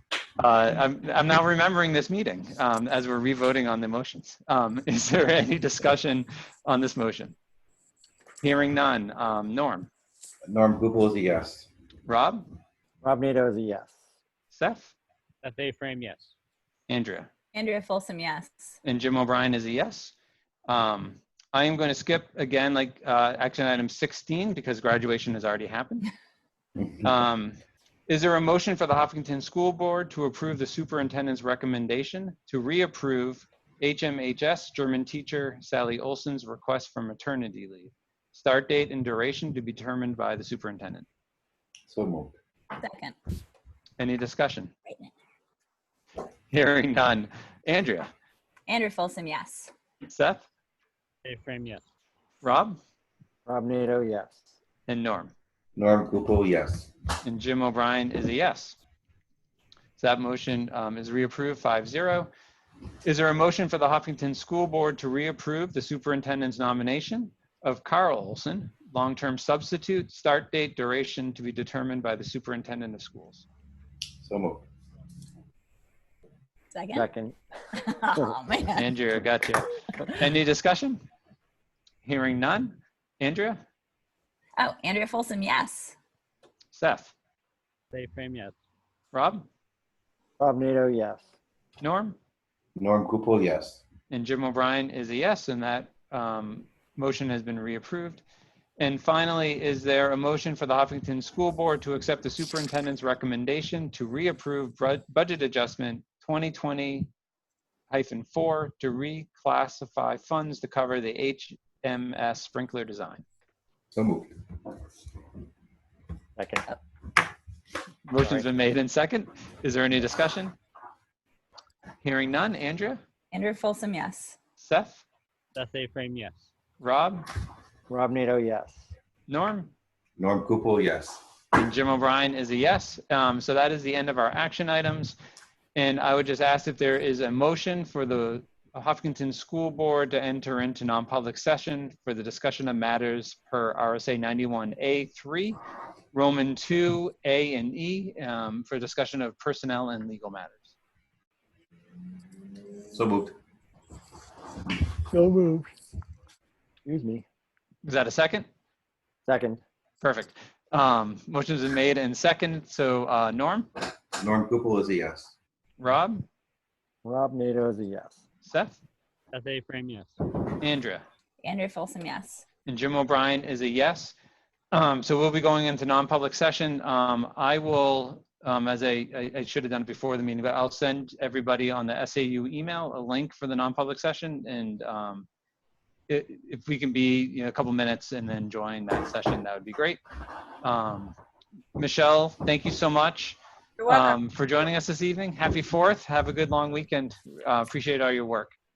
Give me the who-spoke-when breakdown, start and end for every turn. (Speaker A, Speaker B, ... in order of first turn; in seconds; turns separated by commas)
Speaker A: 0.4-7.3, Speaker A: 8.4-9.9, Speaker B: 10.5-11.7, Speaker A: 12.1-12.5, Speaker C: 13.0-13.9, Speaker A: 14.5-14.9, Speaker D: 15.4-16.3, Speaker A: 16.9-17.3, Speaker E: 17.5-18.7, Speaker A: 18.8-20.1, Speaker A: 20.7-26.1, Speaker B: 26.8-27.0, Speaker A: 27.0-27.6, Speaker A: 28.1-41.0, Speaker B: 41.9-42.3, Speaker E: 42.8-43.1, Speaker A: 44.0-44.7, Speaker E: 44.9-45.1, Speaker A: 46.5-48.1, Speaker E: 48.7-49.7, Speaker A: 50.0-50.4, Speaker D: 51.2-51.8, Speaker A: 52.4-52.8, Speaker C: 53.5-54.4, Speaker A: 54.9-55.3, Speaker B: 55.8-56.9, Speaker A: 57.2-58.8, Speaker A: 60.0-62.3, Speaker A: 63.0-73.4, Speaker B: 74.2-74.6, Speaker E: 76.7-77.0, Speaker C: 76.9-77.3, Speaker E: 77.8-78.9, Speaker A: 78.8-81.0, Speaker A: 82.0-83.6, Speaker E: 84.6-85.9, Speaker A: 86.7-87.1, Speaker D: 87.9-88.5, Speaker A: 89.1-89.5, Speaker C: 90.4-91.2, Speaker A: 91.8-92.2, Speaker B: 92.8-93.8, Speaker A: 94.1-98.2, Speaker A: 98.8-107.1, Speaker A: 107.9-113.2, Speaker B: 113.9-114.3, Speaker C: 116.4-116.6, Speaker A: 118.1-120.5, Speaker C: 118.2-118.4, Speaker A: 122.0-123.0, Speaker E: 123.3-124.4, Speaker A: 124.6-125.0, Speaker D: 125.5-126.4, Speaker A: 126.8-127.2, Speaker C: 127.9-128.8, Speaker A: 129.3-129.7, Speaker B: 130.2-131.2, Speaker A: 131.5-135.2, Speaker A: 135.7-145.6, Speaker A: 146.1-150.7, Speaker B: 152.9-153.3, Speaker C: 155.1-155.7, Speaker C: 156.8-157.2, Speaker A: 157.8-158.5, Speaker C: 159.3-159.6, Speaker A: 160.0-163.7, Speaker B: 164.2-165.3, Speaker A: 165.8-166.2, Speaker C: 167.0-168.2, Speaker A: 168.4-168.8, Speaker D: 169.3-170.1, Speaker A: 170.5-171.0, Speaker E: 171.4-172.4, Speaker A: 172.7-174.1, Speaker A: 174.7-185.3, Speaker A: 186.1-190.0, Speaker A: 190.6-191.1, Speaker A: 191.8-198.5, Speaker E: 193.8-194.2